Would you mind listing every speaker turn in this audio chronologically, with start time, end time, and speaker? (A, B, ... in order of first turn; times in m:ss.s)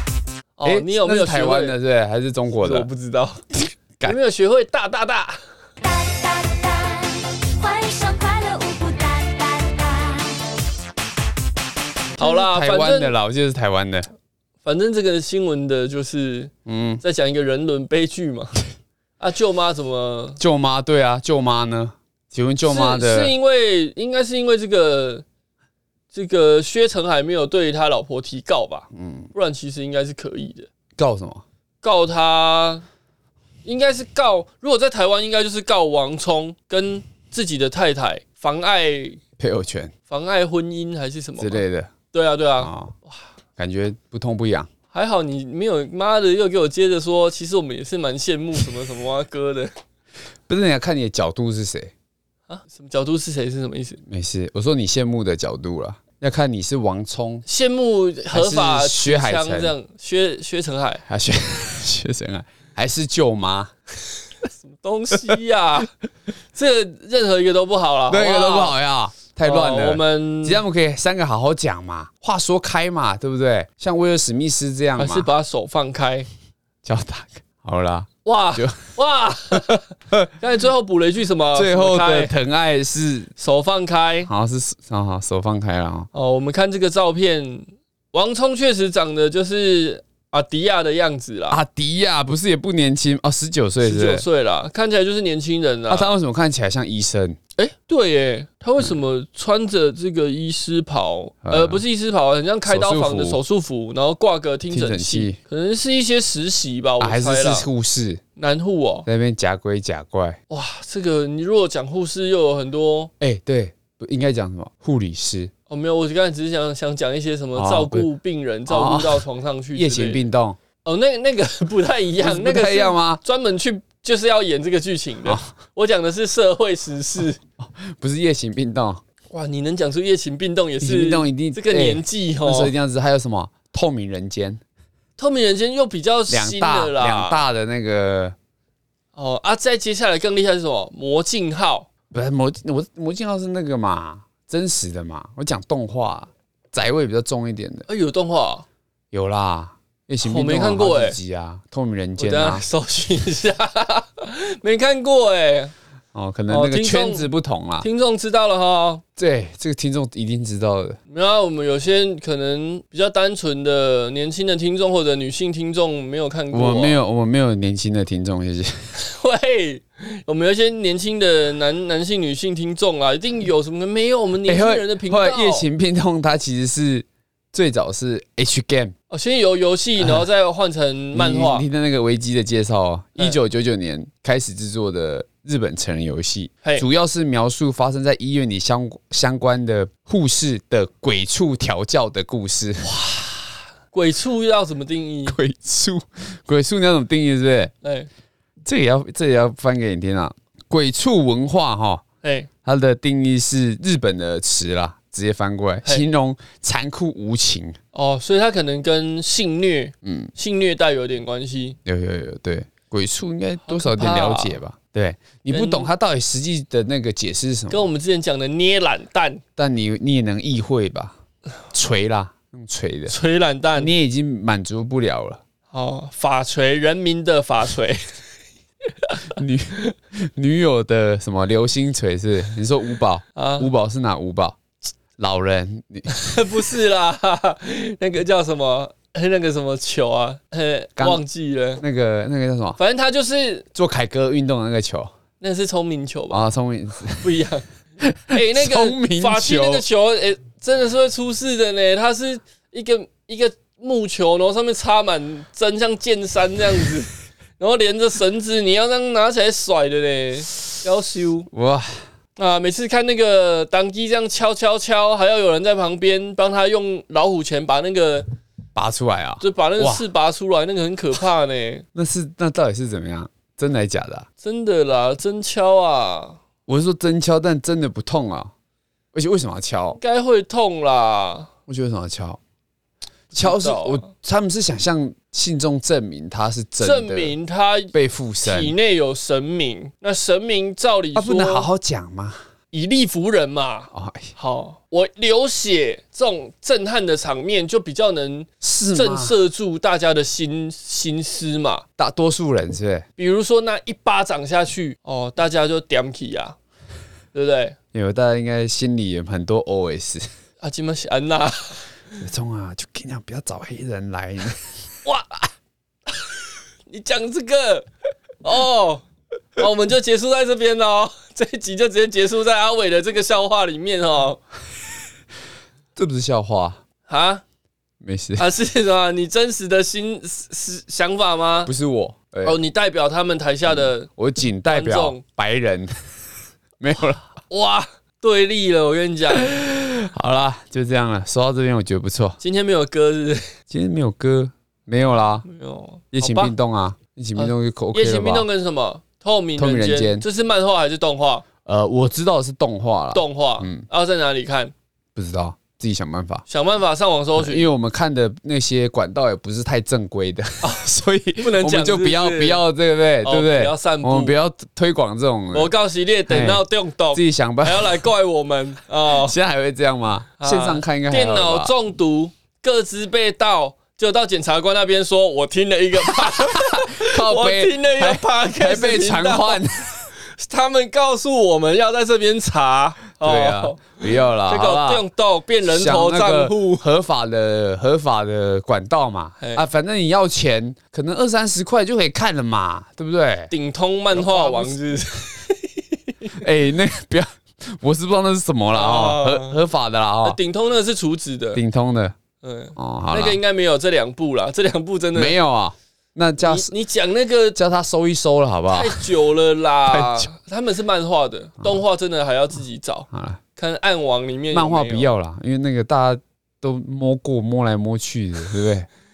0:00.6-0:01.8 A
0:00.6-0:02.9 B
0:02.6-0:03.4 A
0:04.0-0:05.4 A
0:05.8-0:10.5 C
0:12.2-0:14.1 B
0:12.2-0:13.2 A
0:14.6-0:18.6 A
0:16.6-0:17.0 B
0:19.2-0:20.4 A
0:20.4-0:23.3 B
0:22.6-0:25.2 A
0:26.1-0:30.7 A
0:28.9-0:29.3 B
0:31.0-0:31.4 B
0:31.8-0:32.8 A
0:33.6-0:39.2 A
0:39.4-0:39.9 B
0:40.1-0:43.2 A
0:41.4-0:41.9 B
0:42.6-0:42.9 B
0:43.6-0:44.7 B
0:44.9-0:49.7 A
0:50.5-0:51.9 B
0:52.5-0:54.0 A
0:54.1-0:57.4 B
0:57.4-1:01.0 A
0:58.3-0:59.7 B
1:01.0-1:03.7 B
1:04.5-1:05.9 A
1:06.5-1:08.8 A
1:08.1-1:15.3 B
1:09.4-1:10.6 A
1:15.0-1:16.3 A
1:16.8-1:18.8 B
1:18.2-1:22.3 A
1:21.5-1:23.3 B
1:23.4-1:24.3 A
1:24.2-1:26.1 B
1:26.1-1:31.6 A
1:31.5-1:34.2 B
1:33.8-1:36.1 A
1:35.9-1:37.4 B
1:37.6-1:47.7 A
1:41.4-1:41.8 B
1:42.6-1:43.4 B
1:44.7-1:45.4 B
1:47.0-1:48.2 B
1:48.4-1:49.1 A
1:49.0-1:50.4 B
1:50.5-1:53.1 A
1:53.2-1:55.5 B
1:55.7-2:00.2 A
1:57.6-1:58.1 B
1:58.7-2:00.6 B
2:00.8-2:07.4 A
2:02.2-2:03.2 B
2:05.2-2:05.5 B
2:07.6-2:09.0 B
2:09.3-2:12.7 A
2:10.8-2:14.6 B
2:15.2-2:17.4 A
2:16.3-2:18.4 B
2:19.2-2:21.9 A
2:22.1-2:27.8 B
2:27.9-2:28.6 A
2:29.1-2:32.6 B
2:30.2-2:31.2 A
2:32.2-2:35.7 A
2:36.1-2:37.9 B
2:36.5-2:37.3 A
2:37.8-2:39.0 A
2:39.2-2:41.0 B
2:41.1-2:47.0 A
2:46.5-2:48.7 B
2:49.0-2:55.6 A
2:54.4-2:58.9 B
2:59.1-3:01.7 A
3:00.0-3:00.2 B
3:01.1-3:12.9 B
3:12.8-3:15.4 A
3:15.2-3:17.7 B
3:17.8-3:18.1 A
3:18.6-3:22.0 B
3:22.2-3:22.5 A
3:22.6-3:27.8 B
3:27.9-3:31.8 A
3:30.0-3:30.3 B
3:31.8-3:37.9 B
3:33.7-3:34.6 A
3:35.5-3:35.9 A
3:37.7-3:39.4 A
3:39.6-3:41.2 B
3:41.7-3:43.1 B
3:43.1-3:43.9 A
3:43.7-3:45.4 B
3:45.7-3:48.0 A
3:49.4-3:54.6 B
3:53.4-3:53.7 A
3:55.2-3:56.1 B
3:56.1-4:01.8 A
4:01.0-4:01.2 B
4:01.8-4:02.8 B
4:02.8-4:03.6 A
4:03.7-4:05.1 B
4:05.4-4:06.4 A
4:06.3-4:07.3 B
4:07.2-4:07.6 A
4:08.0-4:09.8 B
4:08.3-4:21.5 A
4:21.5-4:22.0 B
4:22.4-4:28.2 A
4:28.8-4:30.1 B
4:29.4-4:31.8 A
4:31.9-4:34.3 B
4:34.4-4:36.4 A
4:36.7-4:38.5 B
4:39.1-4:40.0 B
4:40.0-4:41.5 A
4:41.7-4:42.4 B
4:43.3-4:44.1 A
4:43.3-4:47.4 B
4:46.8-4:51.7 A
4:47.9-4:48.7 B
4:51.1-4:52.4 B
4:52.7-5:01.8 A
4:53.9-4:54.3 B
4:58.6-4:59.4 B
5:02.0-5:03.0 B
5:03.2-5:06.6 A
5:07.3-5:07.8 A
5:07.9-5:10.2 B
5:10.6-5:11.8 A
5:12.2-5:14.6 B
5:15.0-5:15.5 A
5:16.9-5:17.9 A
5:18.4-5:19.0 A
5:19.6-5:24.4 A
5:26.0-5:26.8 B
5:27.1-5:27.4 A
5:28.0-5:28.4 B
5:28.4-5:31.7 A
5:31.6-5:32.6 B
5:32.4-5:34.1 A
5:33.7-5:35.9 B
5:34.7-5:35.2 A
5:36.8-5:37.2 B
5:37.5-5:39.5 A
5:39.5-5:42.4 B
5:42.4-5:43.4 A
5:43.7-5:45.4 B
5:45.4-5:46.5 A
5:46.1-5:48.5 B
5:47.4-5:51.4 A
5:49.6-5:50.2 B
5:51.6-5:53.8 B
5:53.1-5:54.7 A
5:55.1-5:56.4 B
5:56.5-5:57.7 A
5:57.4-6:05.7 B
6:01.4-6:02.6 A
6:03.2-6:04.4 A
6:05.5-6:09.4 A
6:06.3-6:08.0 B
6:09.1-6:11.7 B
6:10.4-6:19.6 A
6:16.1-6:20.0 B
6:20.2-6:26.8 A
6:23.2-6:25.0 B
6:25.6-6:33.5 B
6:33.5-6:36.3 A
6:34.1-6:34.8 B
6:36.4-6:40.4 B
6:38.7-6:39.6 A
6:40.2-6:41.6 A
6:41.5-6:42.2 B
6:42.4-6:45.4 A
6:42.7-6:43.4 B
6:45.1-6:46.7 B
6:46.4-6:47.6 A
6:47.5-6:49.0 B
6:48.7-6:55.1 A
6:49.9-6:50.3 B
6:53.1-6:53.4 B
6:54.5-6:58.9 B